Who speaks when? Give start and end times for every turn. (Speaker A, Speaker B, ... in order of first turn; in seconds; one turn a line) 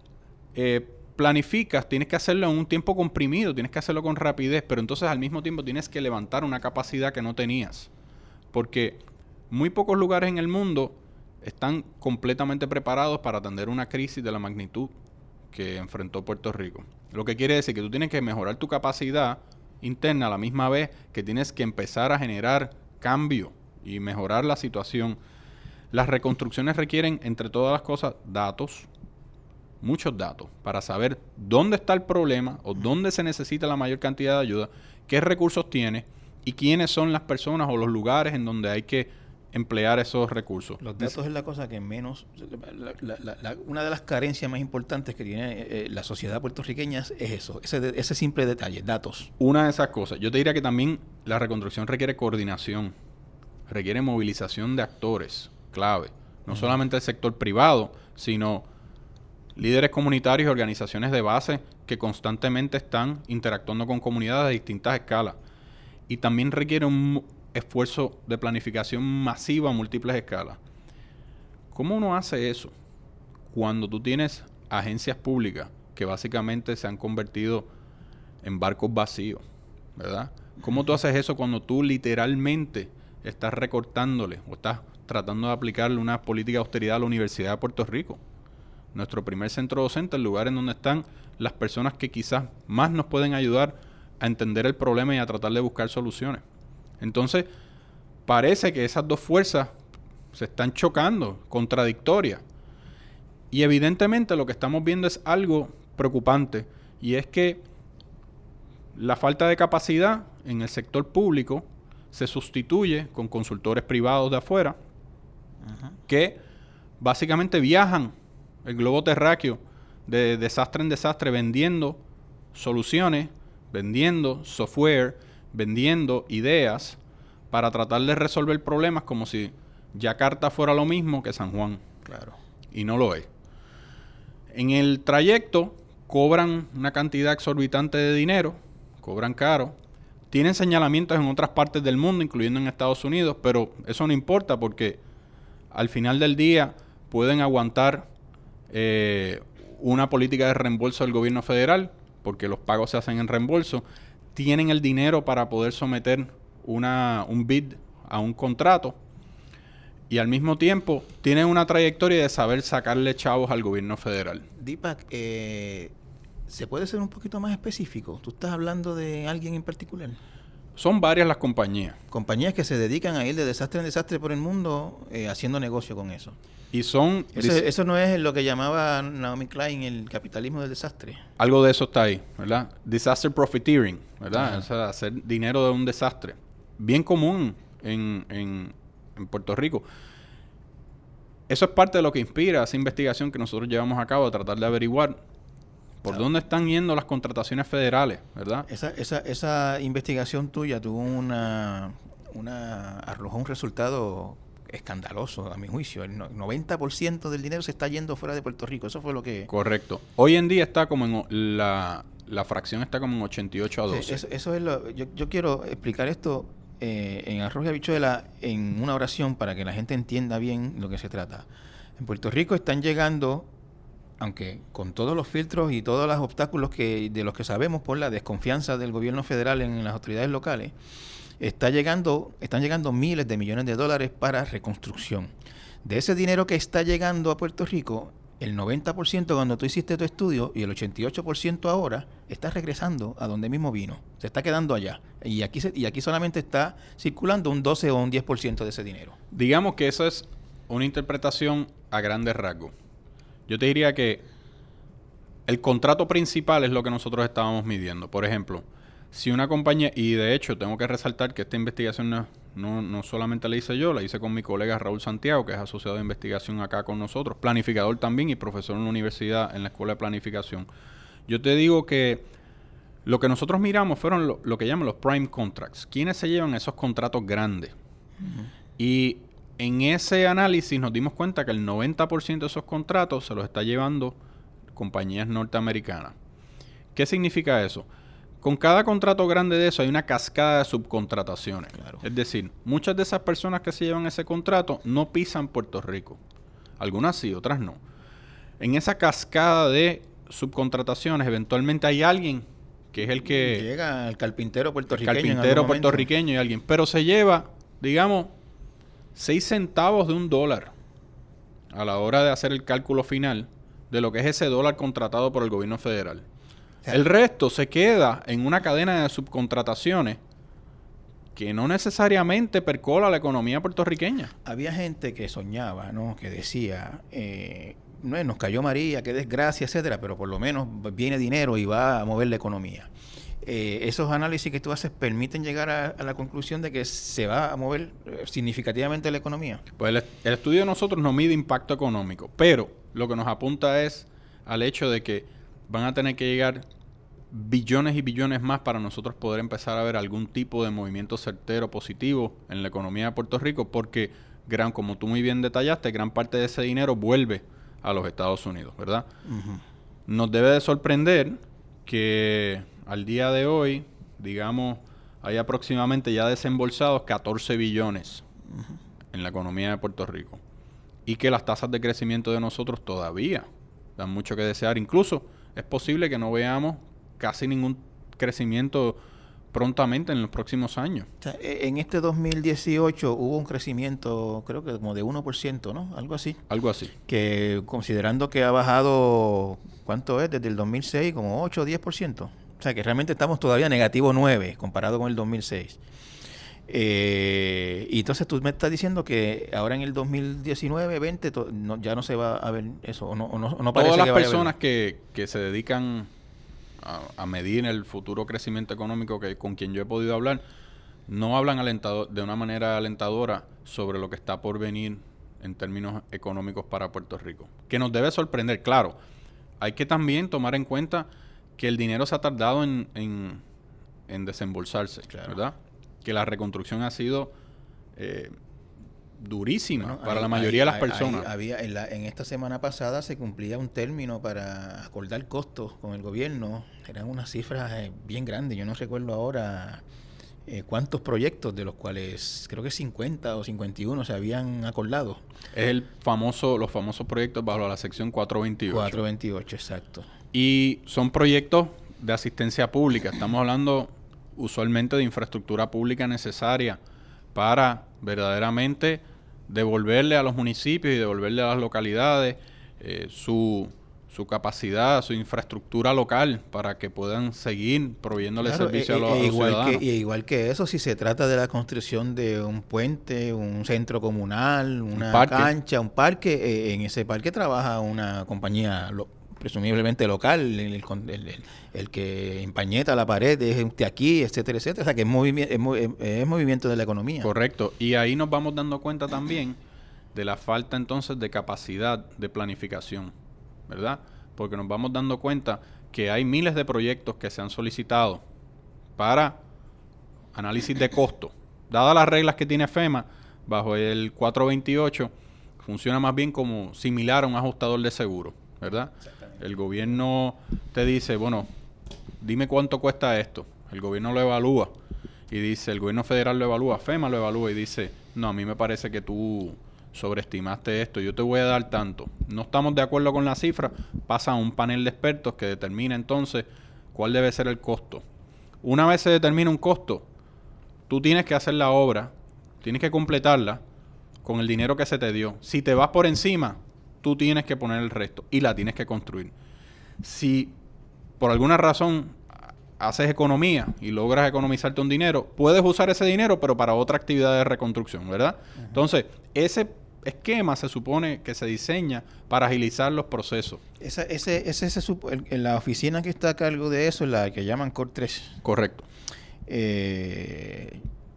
Speaker A: 0.5-7.9
Speaker A: 8.5-14.9
Speaker A: 15.5-25.2
Speaker A: 25.9-28.9
Speaker A: 29.8-41.1
Speaker B: 40.8-49.3
Speaker A: 49.4-52.9
Speaker A: 53.7-58.6
Speaker B: 56.5-56.8
Speaker A: 59.5-65.4
Speaker A: 66.1-70.6
Speaker A: 71.7-72.7
Speaker A: 73.5-77.7
Speaker A: 78.4-79.4
Speaker A: 80.0-88.2
Speaker A: 88.9-96.4
Speaker A: 97.0-97.5
Speaker A: 98.2-99.7
Speaker A: 100.3-102.4
Speaker A: 103.5-107.6
Speaker A: 108.9-114.8
Speaker B: 115.6-116.0
Speaker A: 116.1-116.4
Speaker A: 117.0-118.1
Speaker A: 118.6-122.0
Speaker A: 122.5-127.0
Speaker A: 127.5-131.8
Speaker B: 132.0-132.3
Speaker A: 132.7-133.3
Speaker A: 134.5-139.8
Speaker A: 140.3-145.0
Speaker A: 145.7-148.1
Speaker A: 148.7-159.0
Speaker A: 160.1-164.4
Speaker B: 164.6-165.9
Speaker B: 166.5-170.2
Speaker A: 170.8-172.0
Speaker B: 172.1-176.4
Speaker A: 176.7-177.7
Speaker B: 177.3-181.2
Speaker A: 181.4-189.8
Speaker B: 184.3-184.6
Speaker A: 191.5-195.2
Speaker A: 196.0-198.7
Speaker B: 198.7-209.5
Speaker A: 209.5-214.2
Speaker B: 213.9-221.5
Speaker B: 222.0-223.5
Speaker B: 224.2-230.7
Speaker B: 231.4-235.3
Speaker B: 235.8-249.2
Speaker A: 249.3-252.7
Speaker A: 253.5-254.2
Speaker A: 255.4-270.7
Speaker A: 271.3-272.2
Speaker A: 273.0-277.7
Speaker B: 278.2-278.5
Speaker A: 278.8-284.1
Speaker A: 284.7-286.1
Speaker A: 286.9-287.9
Speaker A: 288.4-296.2
Speaker A: 296.8-297.8
Speaker A: 298.6-303.6
Speaker B: 303.2-306.1
Speaker A: 304.9-308.3
Speaker A: 309.1-310.7
Speaker A: 311.7-316.2
Speaker A: 316.9-320.2
Speaker A: 321.3-324.3
Speaker B: 324.4-332.9
Speaker B: 333.4-339.6
Speaker A: 339.8-346.6
Speaker A: 347.3-359.1
Speaker B: 359.2-359.6
Speaker A: 360.1-368.2
Speaker B: 368.5-368.8
Speaker A: 369.1-370.4
Speaker A: 371.1-379.0
Speaker A: 379.5-381.1
Speaker B: 381.2-386.4
Speaker A: 386.5-386.9
Speaker B: 387.1-395.8
Speaker B: 396.7-404.5
Speaker A: 403.7-406.1
Speaker A: 406.8-410.4
Speaker A: 411.1-418.9
Speaker A: 419.6-423.4
Speaker A: 424.1-427.3
Speaker B: 425.1-425.4
Speaker A: 427.9-428.3
Speaker A: 429.2-431.3
Speaker B: 429.8-439.8
Speaker B: 440.5-445.2
Speaker A: 445.5-449.0
Speaker B: 448.7-450.1
Speaker A: 450.3-456.8
Speaker A: 457.3-469.8
Speaker B: 468.4-487.3
Speaker A: 474.9-475.5
Speaker A: 487.2-489.6
Speaker A: 490.1-493.1
Speaker A: 493.7-498.2
Speaker A: 499.0-499.4
Speaker A: 500.3-511.5
Speaker A: 512.2-514.7
Speaker A: 515.3-528.0
Speaker A: 528.6-530.1
Speaker A: 530.9-533.6
Speaker A: 534.2-539.3
Speaker A: 540.0-540.6
Speaker A: 541.2-553.6
Speaker B: 553.8-558.4
Speaker A: 558.4-558.9
Speaker B: 559.5-560.8